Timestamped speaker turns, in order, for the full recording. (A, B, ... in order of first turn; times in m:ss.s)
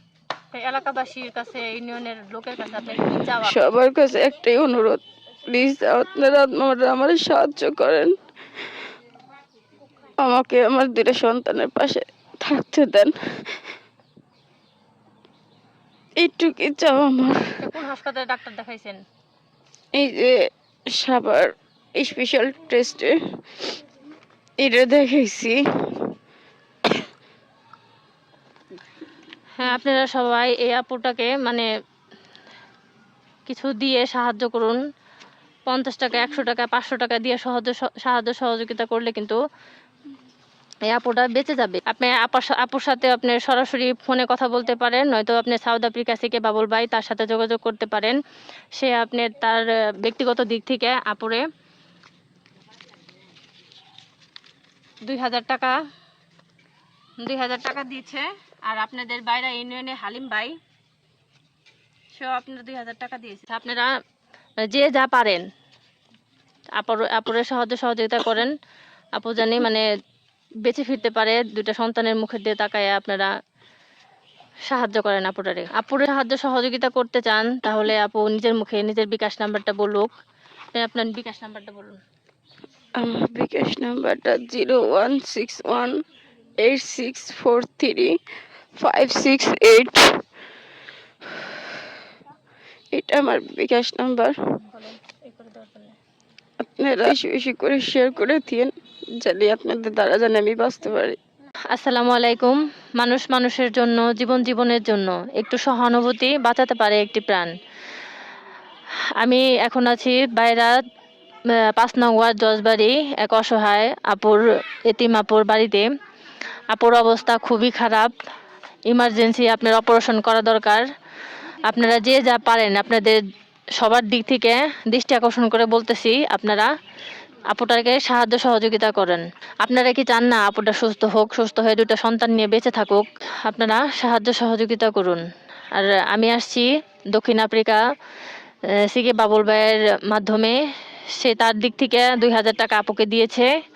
0:00.5-0:03.6 A
0:03.3-0:08.1 B
0:10.2-0:13.6 B
0:16.2-0:17.6 B
0:17.6-0:19.0 A
0:19.9-0:23.6 B
0:24.6-0:26.1 B
0:29.6-0:31.7 A
0:33.5-0:34.8 A
0:35.7-0:39.4 A
0:40.9-0:48.2 A
0:48.8-0:51.4 A
0:55.0-0:55.8 A
0:57.2-1:00.6 A
1:02.1-1:03.9 A
1:04.6-1:05.4 A
1:06.8-1:08.5 A
1:09.2-1:09.8 A
1:10.6-1:13.3 A
1:14.7-1:20.1 A
1:20.7-1:22.0 A
1:23.0-1:26.0 B
1:26.6-1:28.2 B
1:28.8-1:30.2 B
1:31.2-1:31.9 B
1:32.9-1:34.4 B
1:34.7-1:35.9 A
1:36.6-1:41.2 B
1:41.7-1:47.5 A
1:49.2-1:50.8 A
1:51.6-1:55.9 A
1:56.7-1:58.1 A
1:58.9-2:00.8 A
2:01.6-2:03.2 A
2:03.8-2:06.7 A
2:07.5-2:17.8 A
2:18.7-2:20.6 A
2:21.1-2:23.5 A